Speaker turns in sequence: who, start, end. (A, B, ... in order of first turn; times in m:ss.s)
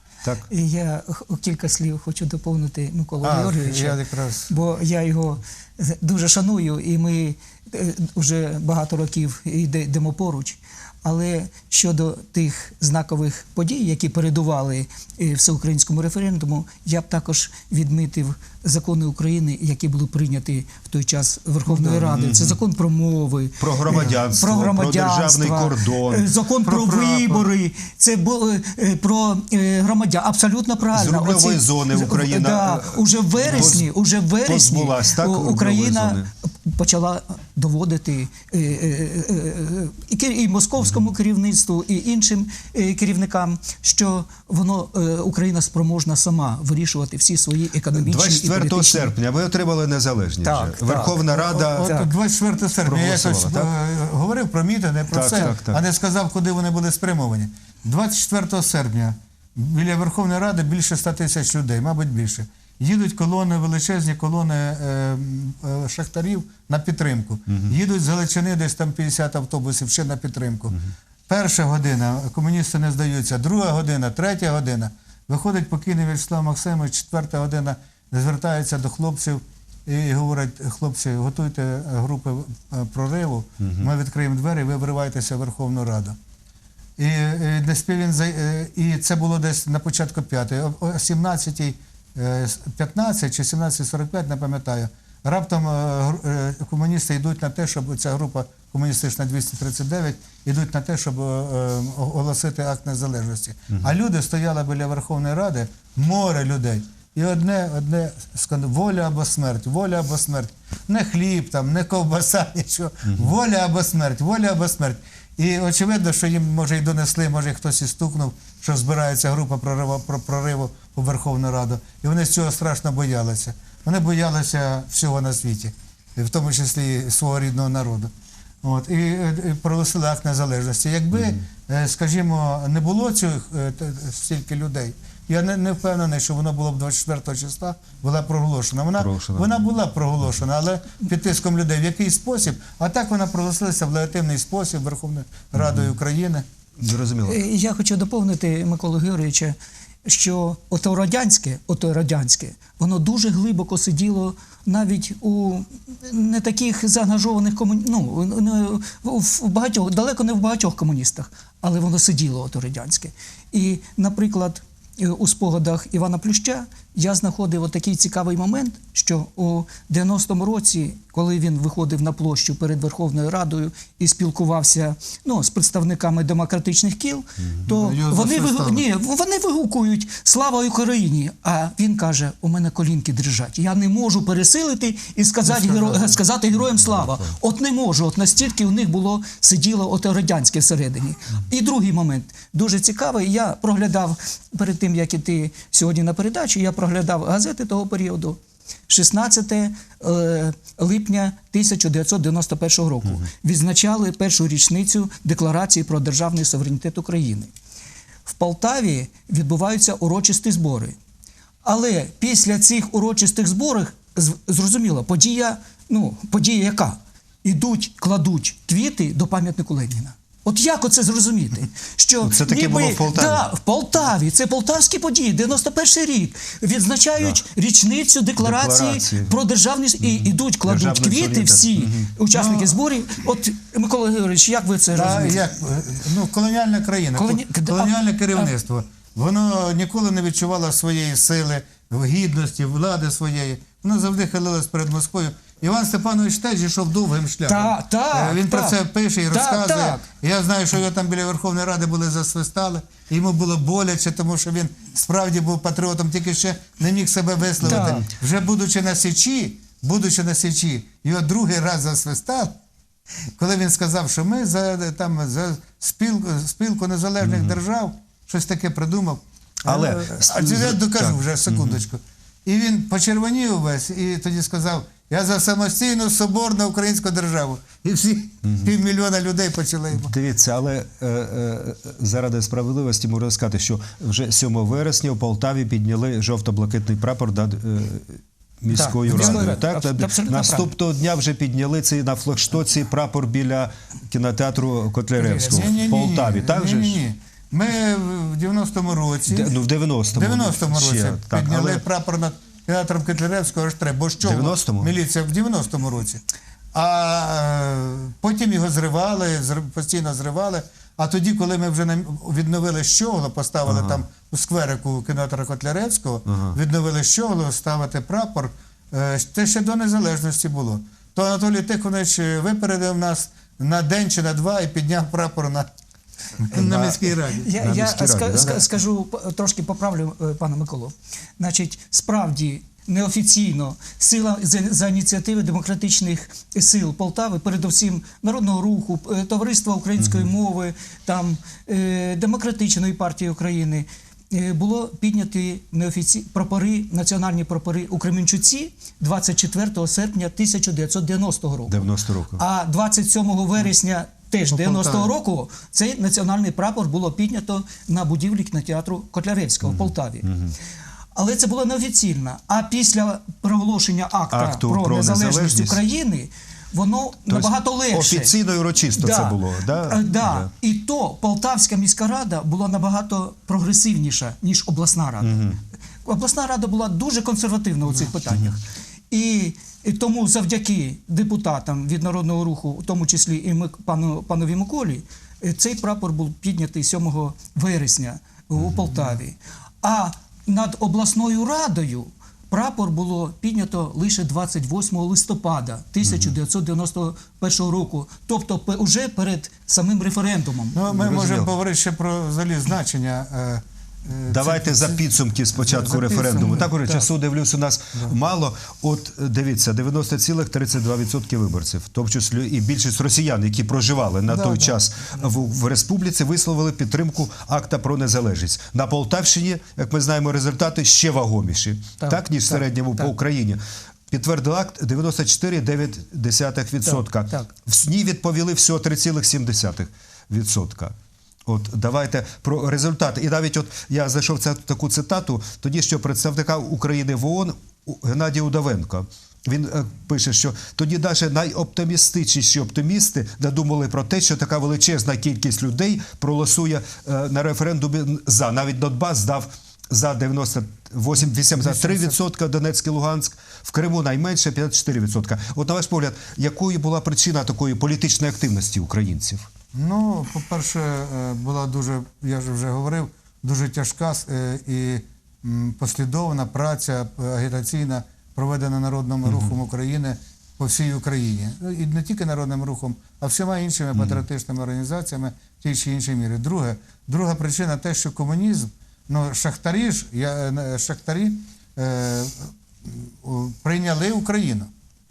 0:00.5-0:49.1 A
0:03.2-0:04.5 B
0:22.0-0:22.6 C
0:23.6-0:27.5 C
0:30.9-0:33.9 C
0:34.4-0:36.3 C
0:47.9-0:52.0 C
0:50.4-0:52.1 A
0:51.2-1:26.2 B
0:52.8-0:53.7 C
0:55.1-0:55.8 C
1:23.6-1:23.9 C
1:27.0-2:08.1 B
1:53.1-1:53.3 C
2:08.6-2:26.4 B
2:19.0-2:19.6 C
2:25.5-2:25.9 C
2:26.8-2:27.4 C
2:27.2-3:27.5 A
2:57.7-2:58.8 B
3:05.6-3:06.0 B
3:28.2-3:31.0 A
3:31.6-3:55.4 A
3:42.2-3:43.4 C
3:48.4-3:49.4 C
3:50.0-3:52.1 C
3:52.3-3:52.8 B
3:54.9-4:22.6 B
3:57.2-3:58.5 A
4:07.4-4:08.8 A
4:09.3-4:10.0 A
4:17.6-4:18.1 C
4:17.6-4:18.0 A
4:23.4-4:40.1 B
4:27.2-4:27.6 C
4:29.6-4:31.8 C
4:38.4-4:38.7 C
4:39.9-4:57.0 C
4:48.7-4:50.7 A
4:49.1-4:49.6 B
4:55.2-4:55.6 A
4:55.3-4:59.6 B
4:59.3-5:01.8 C
5:00.1-5:06.2 B
5:04.2-5:04.9 C
5:06.7-5:25.7 B
5:13.6-5:14.0 C
5:16.3-5:16.6 C
5:26.4-5:27.5 B
5:26.5-5:28.6 C
5:27.3-6:00.3 A
5:40.0-5:40.3 C
5:51.7-5:52.4 C
5:54.5-5:55.1 B
5:59.6-6:00.5 C
6:01.1-6:08.3 A
6:04.3-6:05.8 C
6:07.3-6:10.5 C
6:08.9-6:15.4 A
6:15.2-6:15.6 C
6:16.0-6:40.8 A
6:36.0-6:36.3 C
6:40.7-6:47.0 B
6:40.9-6:41.5 C
6:44.3-7:39.5 C
7:02.0-7:03.1 A
7:06.8-7:07.5 A
7:31.4-7:32.1 B
7:39.7-8:04.7 B
7:49.2-7:49.5 C
7:53.9-7:54.2 C